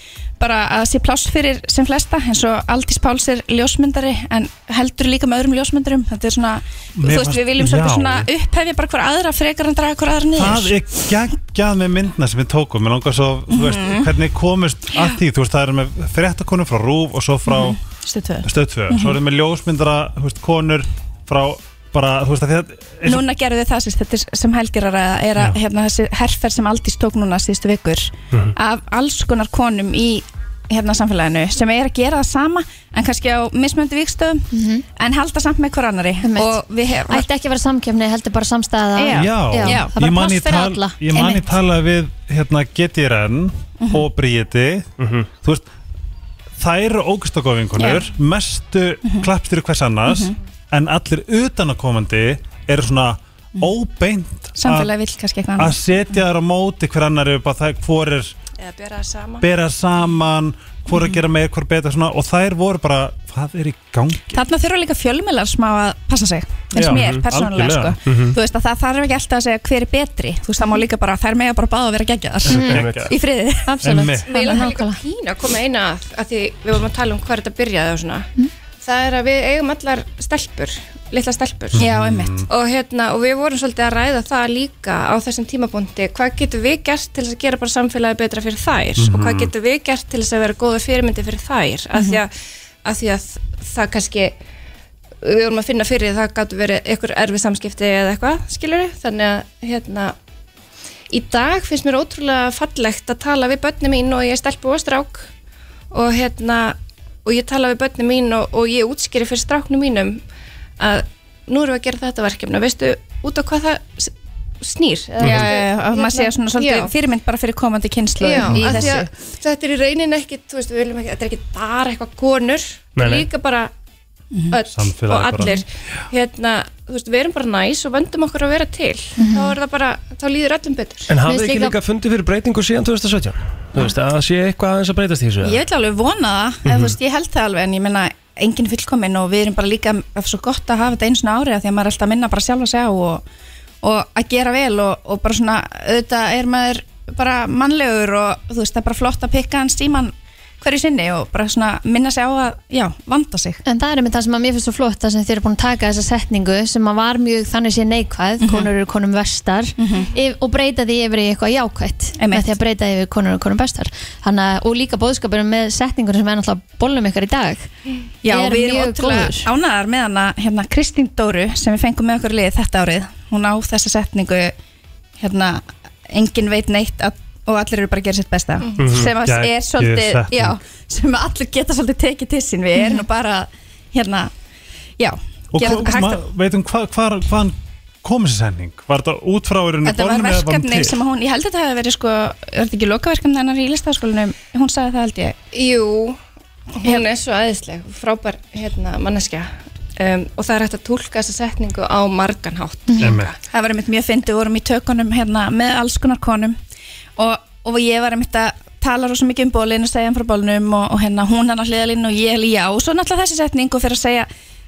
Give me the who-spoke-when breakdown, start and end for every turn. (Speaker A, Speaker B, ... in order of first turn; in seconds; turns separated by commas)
Speaker A: 0.4-10.7, Speaker B: 7.0-8.3, Speaker B: 10.3-17.8, Speaker A: 13.5-14.1, Speaker A: 17.4-19.2, Speaker B: 18.4-23.2, Speaker A: 23.0-37.2, Speaker C: 34.5-34.8, Speaker C: 36.2-41.4, Speaker A: 39.0-39.9, Speaker B: 39.1-44.9, Speaker A: 41.1-41.4, Speaker A: 43.8-44.0, Speaker D: 45.0-45.3, Speaker B: 46.6-54.9, Speaker A: 47.8-48.0, Speaker A: 50.1-50.3, Speaker A: 54.6-55.8, Speaker B: 55.6-58.3, Speaker E: 58.6-59.5, Speaker B: 59.4-64.4, Speaker A: 64.3-73.8, Speaker B: 66.7-68.0, Speaker D: 66.9-67.2, Speaker D: 68.0-68.4, Speaker B: 72.5-73.1, Speaker D: 72.6-73.1, Speaker C: 73.6-75.0, Speaker B: 73.8-74.3, Speaker E: 74.3-78.3, Speaker E: 78.8-81.8, Speaker B: 81.7-82.5, Speaker A: 81.8-82.4, Speaker E: 82.5-94.4, Speaker B: 89.0-89.5, Speaker E: 95.2-100.1, Speaker E: 101.1-105.3, Speaker E: 105.9-110.2, Speaker E: 110.8-116.9, Speaker A: 115.2-119.1, Speaker E: 118.2-123.7, Speaker C: 118.5-118.9, Speaker D: 123.0-123.3, Speaker E: 124.5-131.1, Speaker B: 124.7-125.5, Speaker C: 129.2-129.5, Speaker D: 131.1-135.6, Speaker C: 131.2-131.7, Speaker A: 135.4-143.2, Speaker D: 136.7-136.9, Speaker A: 143.8-153.6, Speaker C: 153.6-167.7, Speaker A: 158.4-158.7, Speaker A: 159.8-160.1, Speaker A: 162.2-162.5, Speaker A: 168.2-174.5, Speaker C: 168.2-169.5, Speaker A: 175.2-184.3, Speaker D: 178.8-179.1, Speaker B: 179.0-180.6, Speaker A: 185.0-186.2, Speaker B: 185.5-191.0, Speaker A: 189.8-195.3, Speaker E: 195.5-196.2, Speaker E: 196.8-203.3, Speaker C: 202.9-203.1, Speaker B: 203.0-203.3, Speaker A: 203.5-206.6, Speaker A: 207.2-214.3